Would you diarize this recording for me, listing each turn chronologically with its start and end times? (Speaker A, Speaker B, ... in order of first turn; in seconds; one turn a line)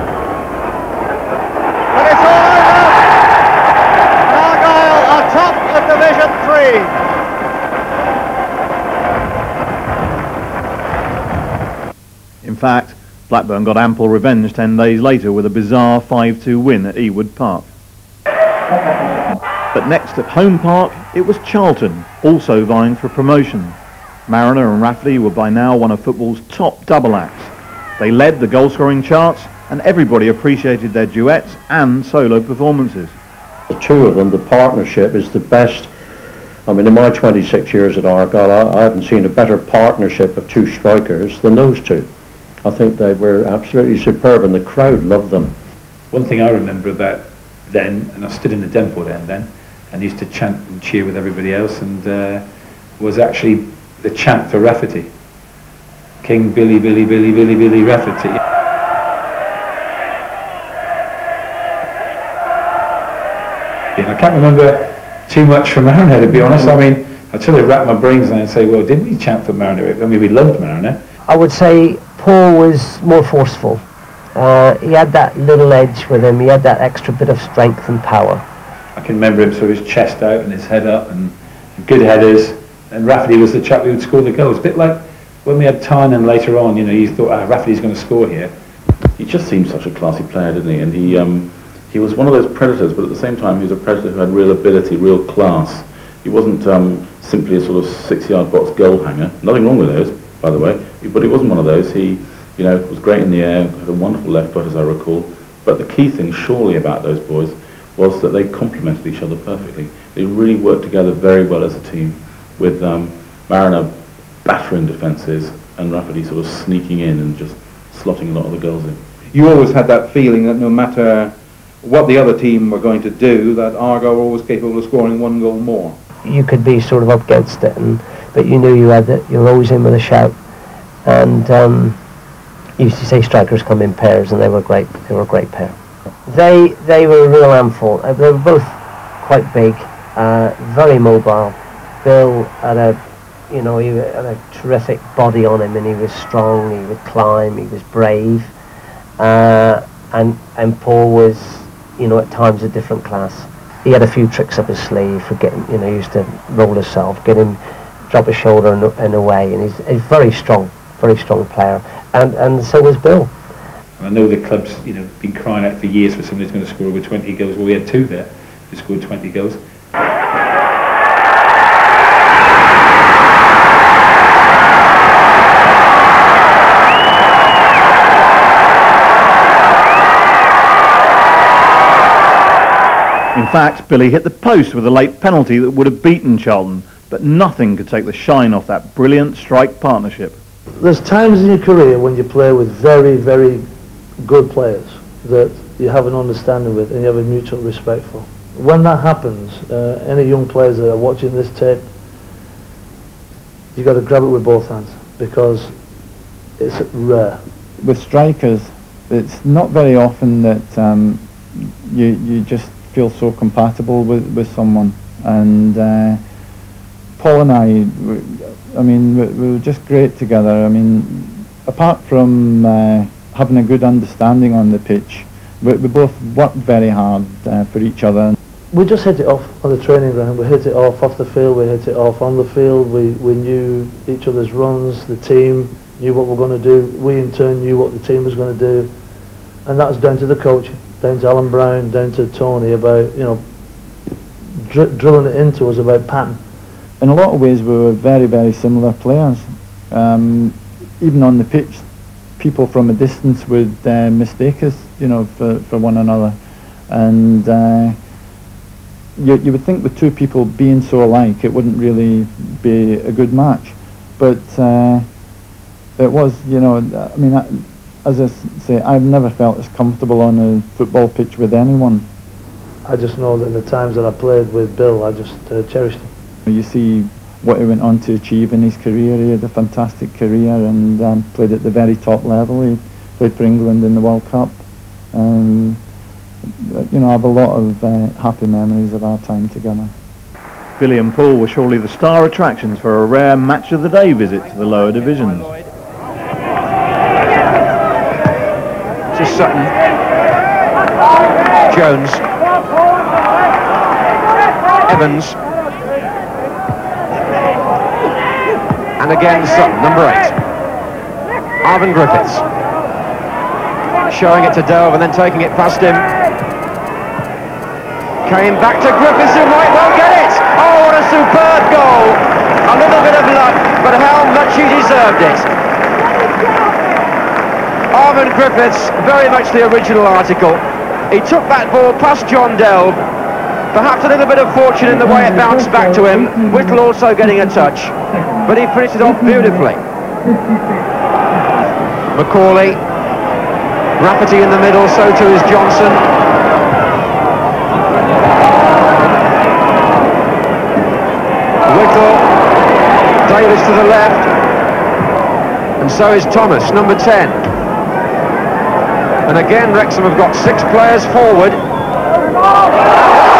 Speaker A: 1.9-3.0
Speaker A: 4.2-6.9
Speaker B: 12.4-17.7
Speaker B: 19.7-23.8
Speaker B: 24.3-33.1
Speaker C: 33.7-35.9
Speaker C: 36.6-42.1
Speaker C: 42.6-45.5
Speaker D: 46.1-52.4
Speaker D: 53.0-55.1
Speaker D: 56.2-58.4
Speaker D: 64.0-71.0
Speaker E: 71.3-73.8
Speaker E: 74.3-78.4
Speaker D: 79.0-88.5
Speaker F: 89.2-113.9
Speaker F: 114.4-119.0
Speaker G: 119.3-126.0
Speaker E: 126.2-130.3
Speaker E: 131.0-132.0
Speaker E: 132.8-135.7
Speaker E: 136.2-143.0
Speaker E: 143.5-148.5
Speaker E: 149.2-163.3
Speaker D: 164.0-169.6
Speaker B: 183.3-190.4
Speaker H: 190.8-193.6
Speaker H: 194.2-201.9
Speaker H: 203.7-205.7
Speaker H: 206.6-207.4
Speaker I: 207.8-216.2
Speaker I: 217.2-228.3
Speaker H: 228.7-238.9
Speaker H: 239.7-243.4
Speaker H: 244.6-246.4
Speaker I: 247.0-251.8
Speaker I: 252.4-256.4
Speaker I: 256.9-258.0
Speaker I: 259.2-265.0
Speaker I: 266.0-272.1
Speaker H: 272.8-276.1
Speaker I: 276.4-284.6
Speaker I: 285.1-285.8
Speaker I: 286.6-289.9
Speaker B: 290.8-295.5
Speaker J: 299.1-299.7
Speaker J: 301.6-302.2
Speaker J: 304.8-305.4
Speaker J: 309.0-310.4
Speaker J: 311.6-312.4
Speaker J: 314.0-316.1
Speaker J: 318.2-325.5
Speaker J: 327.9-333.0
Speaker J: 333.7-339.8
Speaker J: 342.1-342.8
Speaker J: 344.0-346.0
Speaker J: 351.7-352.3
Speaker J: 353.2-354.3
Speaker J: 355.8-357.4
Speaker J: 359.2-361.6